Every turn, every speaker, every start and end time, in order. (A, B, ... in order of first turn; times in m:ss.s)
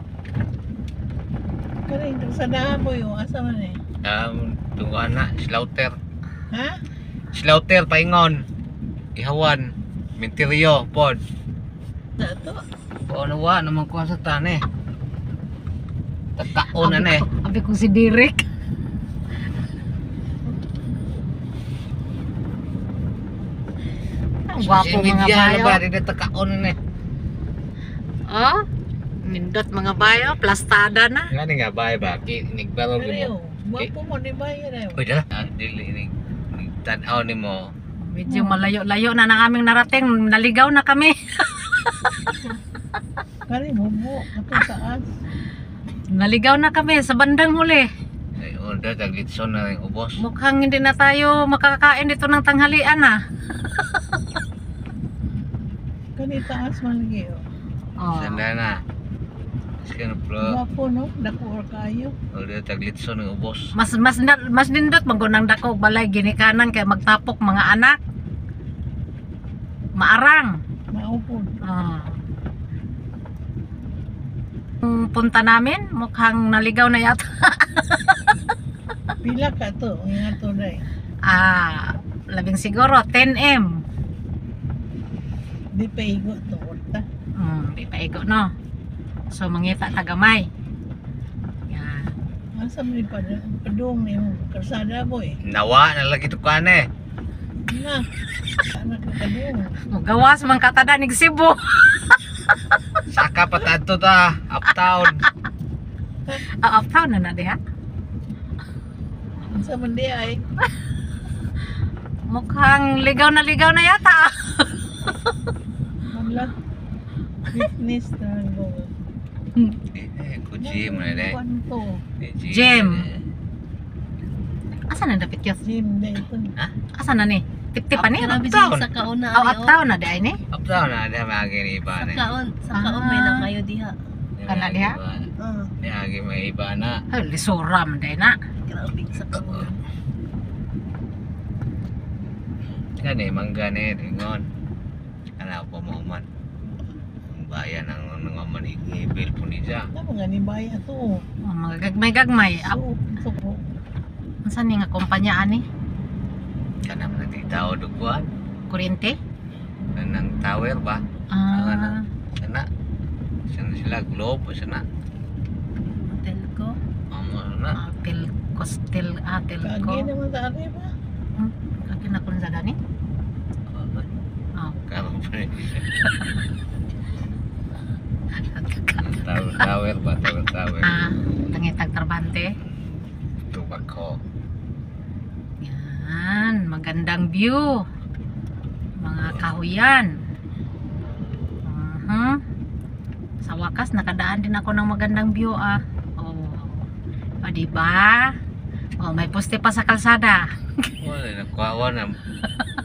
0:01.9-0:03.8 A
0:04.0-0:06.0 B
0:06.5-0:06.8 A
0:07.3-0:08.4 B
0:09.2-0:11.2 B
0:12.2-0:12.6 A
0:13.0-0:14.6 B
0:16.4-0:17.2 B
0:16.7-0:18.4 C
0:24.5-0:25.8 C
0:24.5-0:26.8 B
0:28.3-0:28.6 C
0:29.2-0:31.3 C
0:30.0-0:30.4 B
0:31.3-0:33.9 B
0:32.9-0:35.0 A
0:35.0-0:37.7 B
0:38.1-0:42.4 C
0:38.3-0:38.6 A
0:43.5-0:45.0 A
0:46.1-0:47.9 C
0:48.4-0:50.2 B
0:50.2-0:53.2 C
0:56.2-0:57.4 A
0:58.0-0:58.4 C
0:58.1-0:58.8 B
0:59.8-1:00.6 B
1:00.4-1:02.1 A
1:02.3-1:03.7 B
1:03.7-1:08.0 C
1:10.0-1:10.5 C
1:10.9-1:11.6 A
1:11.6-1:12.2 C
1:14.8-1:18.5 C
1:19.2-1:20.8 A
1:21.2-1:23.7 C
1:25.7-1:27.0 A
1:27.4-1:28.5 C
1:29.3-1:30.5 C
1:31.7-1:32.1 C
1:32.6-1:35.4 A
1:35.5-1:36.9 B
1:37.7-1:38.1 A
1:38.6-1:39.8 A
1:39.9-1:43.0 C
1:43.1-1:45.2 B
1:46.6-1:47.6 C
1:49.5-1:50.4 A
1:52.3-1:55.3 C
1:56.1-1:56.5 A
1:57.5-1:58.9 A
1:59.9-2:01.4 B
2:00.6-2:02.0 A
2:02.2-2:03.2 B
2:02.5-2:03.0 C
2:04.9-2:05.6 C
2:05.6-2:06.5 A
2:07.0-2:08.5 C
2:08.0-2:09.8 D
2:08.4-2:08.9 B
2:09.3-2:10.4 C
2:10.5-2:12.2 B
2:11.9-2:14.0 D
2:12.7-2:13.5 C
2:14.4-2:15.3 B
2:14.5-2:15.0 C
2:15.4-2:15.7 D
2:15.8-2:17.0 B
2:17.1-2:18.4 C
2:18.7-2:19.8 D
2:19.4-2:19.7 B
2:23.0-2:24.4 B
2:25.4-2:26.2 B
2:27.3-2:29.9 B
2:29.9-2:31.2 A
2:31.4-2:32.8 C
2:32.6-2:33.6 A
2:34.4-2:35.6 C
2:36.8-2:38.3 B
2:38.7-2:39.1 C
2:40.0-2:42.6 B
2:41.3-2:42.0 C
2:43.5-2:44.8 B
2:46.1-2:46.8 D
2:47.1-2:47.8 B
2:47.8-2:50.1 C
2:49.6-2:50.9 A
2:51.4-2:52.8 C
2:53.7-2:54.1 B
2:54.6-2:55.0 C
2:54.9-2:55.9 B
2:56.0-2:56.3 C
2:58.5-2:59.6 C
2:59.0-3:01.0 B
3:00.8-3:02.5 C
3:03.4-3:04.2 B
3:05.6-3:07.8 C
3:09.0-3:10.1 C
3:09.2-3:09.5 B
3:11.6-3:12.4 C
3:13.4-3:16.8 C
3:17.4-3:18.3 C
3:19.0-3:21.0 C
3:21.0-3:22.2 B